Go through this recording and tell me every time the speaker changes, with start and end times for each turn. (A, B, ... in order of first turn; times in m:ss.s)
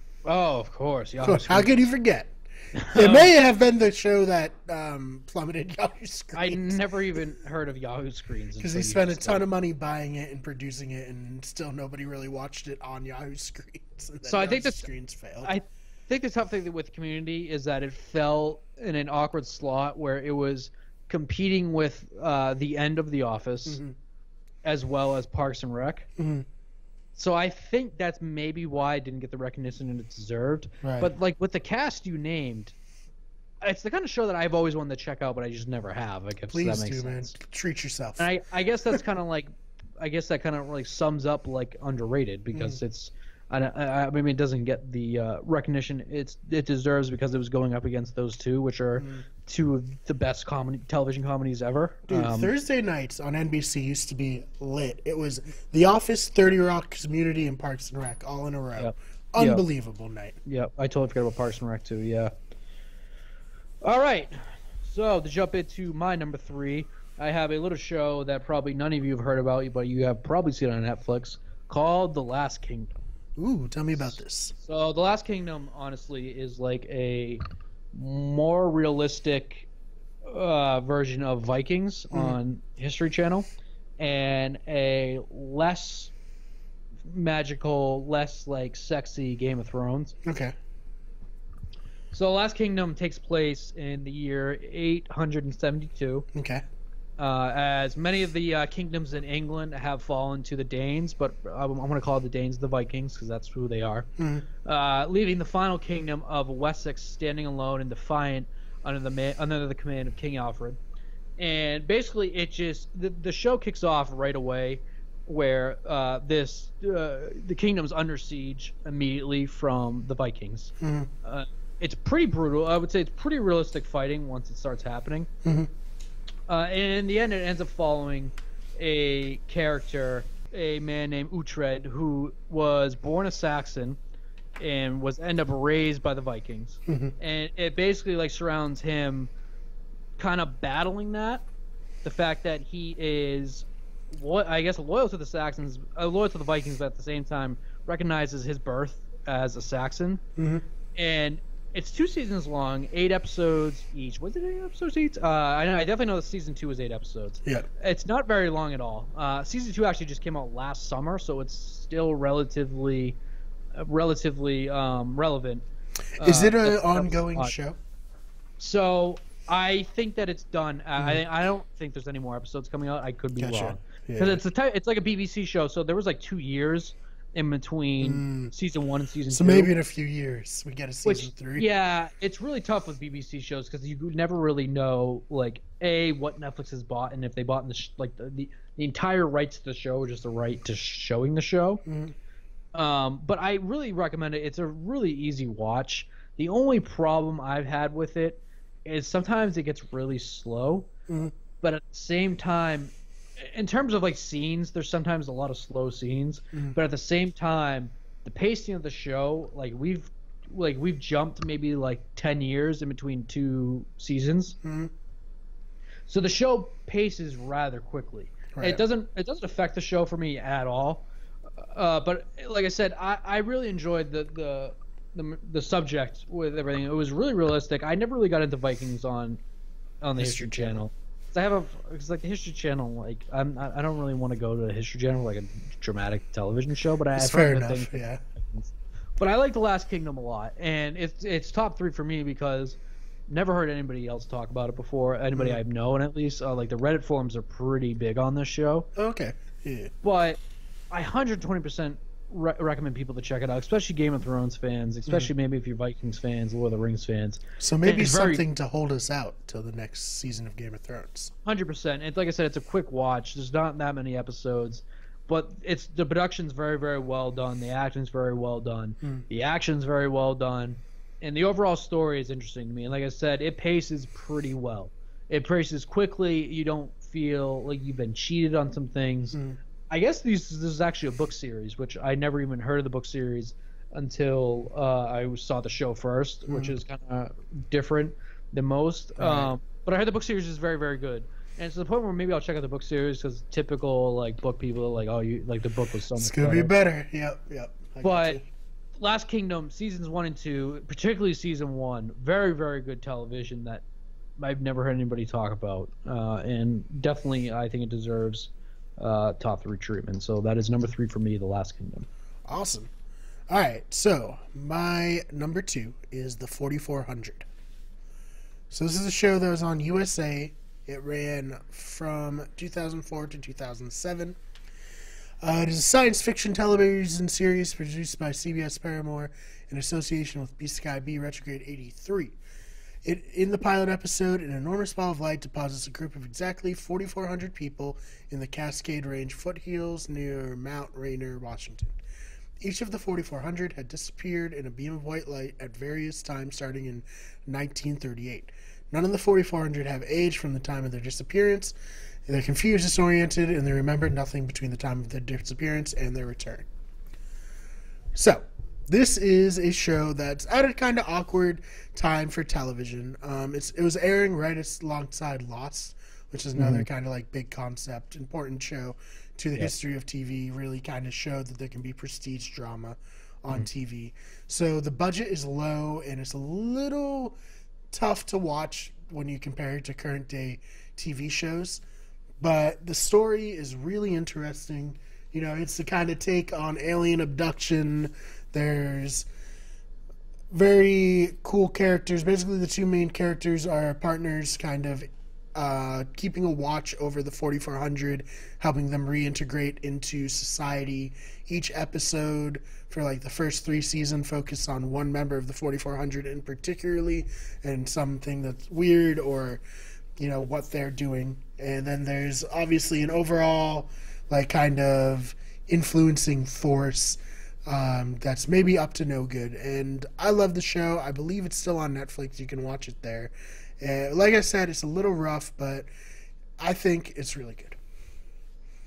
0:00.2-0:01.7 A
0:01.2-0:06.8 B
0:02.8-0:03.3 A
0:06.3-0:09.4 A
0:08.6-0:15.5 B
0:14.2-0:14.9 A
0:15.4-0:23.8 A
0:23.7-0:24.0 B
0:24.6-0:26.1 A
0:26.2-0:26.5 B
0:27.2-0:32.8 A
0:30.8-0:31.1 B
0:33.6-0:37.4 A
0:36.5-0:38.3 B
0:38.2-0:52.5 A
0:42.5-0:42.8 B
0:52.1-1:00.4 B
0:58.8-0:59.6 A
1:00.4-1:02.3 A
1:03.8-1:12.9 A
1:13.4-1:14.5 B
1:14.0-1:17.4 A
1:17.9-1:19.7 A
1:20.3-1:26.1 A
1:27.1-1:30.2 A
1:30.2-1:30.6 B
1:32.1-1:36.3 A
1:36.3-1:36.6 B
1:37.2-1:44.1 A
1:44.2-1:44.5 B
1:44.6-1:50.8 A
1:51.4-2:00.7 A
2:00.8-2:01.1 B
2:01.2-2:05.3 A
2:05.4-2:05.7 B
2:06.5-2:14.0 A
2:14.6-2:19.3 A
2:16.9-2:17.1 B
2:20.2-2:21.5 A
2:22.0-2:30.2 A
2:30.4-2:30.6 B
2:31.0-2:43.2 A
2:43.8-2:45.6 A
2:46.2-2:47.5 A
2:46.2-2:47.8 B
2:48.6-2:59.7 A
2:53.4-2:54.4 B
2:58.0-2:58.5 B
2:59.3-3:01.7 B
3:01.0-3:11.8 A
3:11.9-3:12.2 B
3:12.7-3:20.9 A
3:21.1-3:21.3 B
3:21.6-3:34.6 A
3:34.6-3:34.9 B
3:36.1-3:41.1 A
3:38.6-3:38.8 B
3:41.7-3:49.4 A
3:50.0-4:08.9 A
3:50.2-3:50.8 B
3:57.2-3:58.2 B
4:09.0-4:09.9 B
4:10.0-4:10.4 A
4:10.9-4:18.4 A
4:17.6-4:21.3 B
4:21.4-4:39.4 A
4:39.3-4:39.6 B
4:39.9-4:56.8 A
4:46.5-4:46.8 B
4:49.2-4:49.5 B
4:56.2-4:58.4 B
4:58.0-4:58.4 A
4:59.0-5:03.8 A
5:04.4-5:12.1 A
5:12.5-5:12.9 B
5:13.5-5:17.4 B
5:18.7-5:24.4 B
5:25.4-5:32.4 B
5:33.0-5:42.0 B
5:42.6-5:51.8 B
5:52.3-5:56.7 B
5:58.2-6:17.4 B
6:06.6-6:06.9 A
6:17.9-6:21.8 B
6:22.4-6:29.3 B
6:30.5-6:49.6 B
6:50.2-7:05.9 B
7:06.6-7:07.8 B